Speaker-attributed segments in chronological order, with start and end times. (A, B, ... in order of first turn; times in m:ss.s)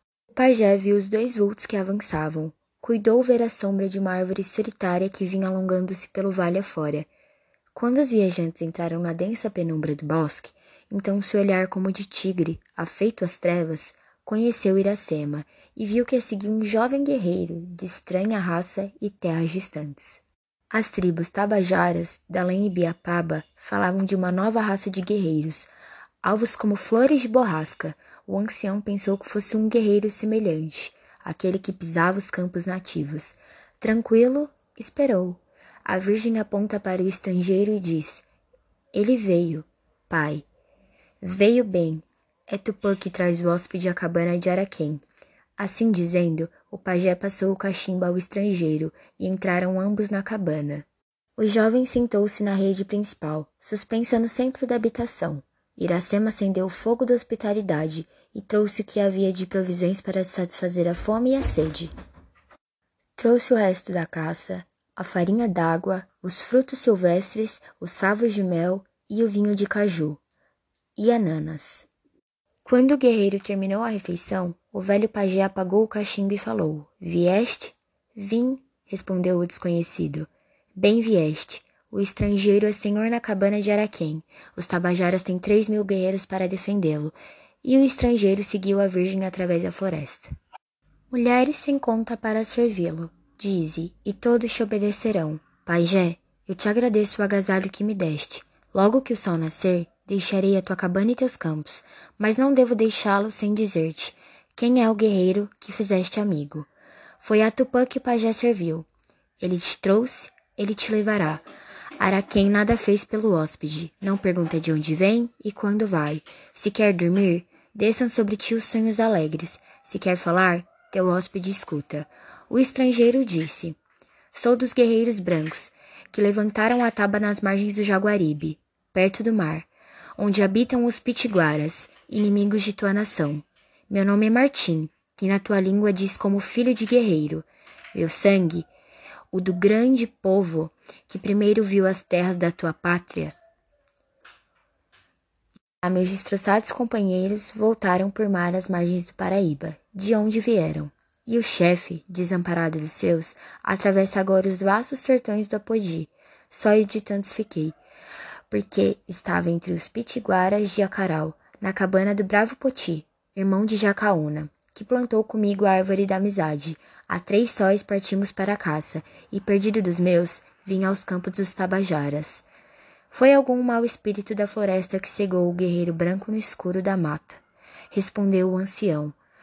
0:00.3-0:07.1 A
0:07.7-0:25.7 A
0:26.2-0:38.2 A
0:38.9-0:40.5 A
0:41.2-0:45.0 A
0:45.6-1:01.9 A
1:03.2-1:10.2 A
1:11.0-1:11.9 A
1:12.6-1:30.3 A
1:31.1-1:46.7 A
1:47.2-1:48.9 A
1:49.4-1:51.4 A
1:52.0-2:03.8 A
2:04.3-2:18.7 A
2:19.3-2:23.4 A
2:25.8-2:37.8 A
2:38.5-2:52.4 A
2:53.1-2:59.2 A